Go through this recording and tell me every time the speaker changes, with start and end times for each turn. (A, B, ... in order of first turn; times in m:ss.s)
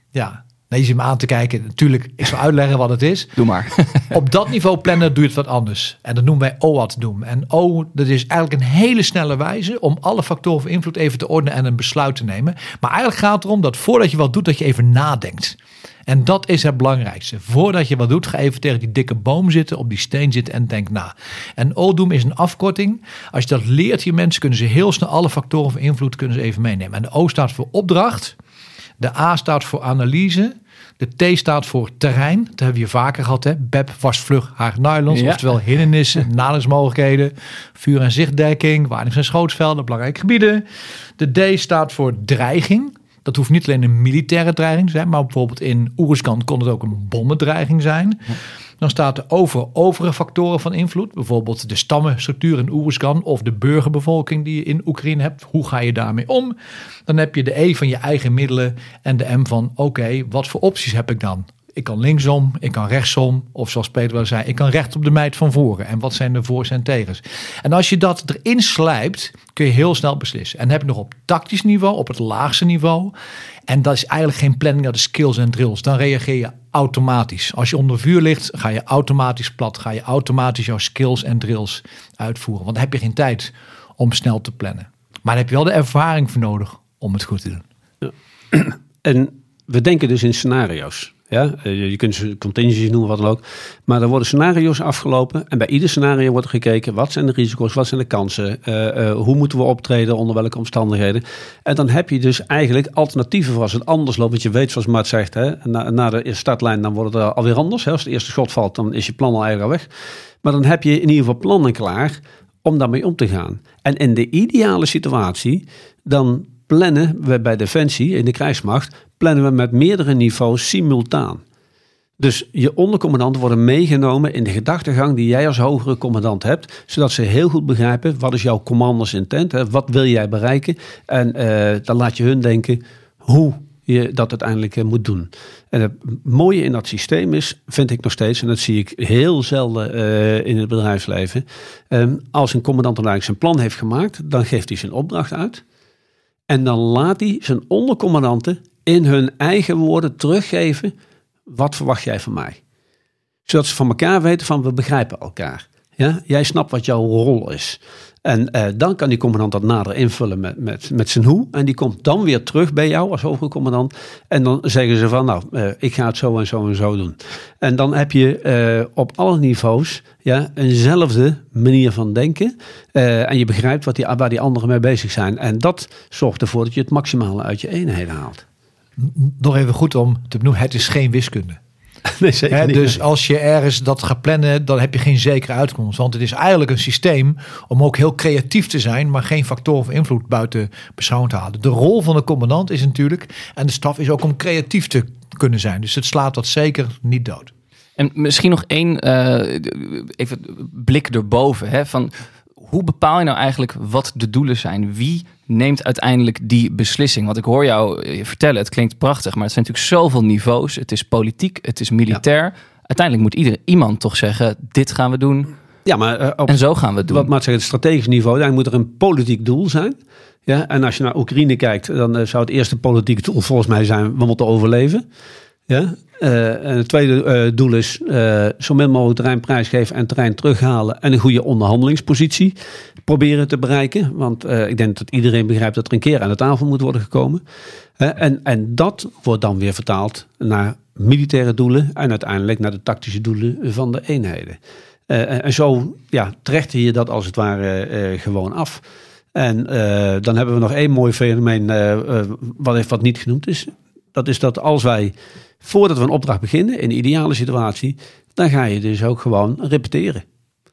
0:00.1-0:03.3 A
0:03.4-0:04.1 B
0:04.1-0:28.4 A
0:29.0-0:40.6 A
0:35.1-0:35.4 B
0:41.2-0:48.2 A
0:48.8-0:56.5 A
0:57.1-1:13.1 A
1:13.7-1:27.6 A
1:28.0-1:49.9 C
1:50.4-2:01.4 C
2:02.2-2:25.6 C
2:26.5-2:30.9 C
2:31.5-2:32.6 C
2:33.5-2:58.4 C
2:59.0-3:01.6 A
3:02.0-3:03.0 C
3:02.5-3:17.5 A
3:18.0-3:35.5 B
3:35.8-3:45.0 C
3:36.5-3:37.3 B
3:45.7-3:57.4 C
3:58.0-4:08.8 C
4:09.3-4:20.2 C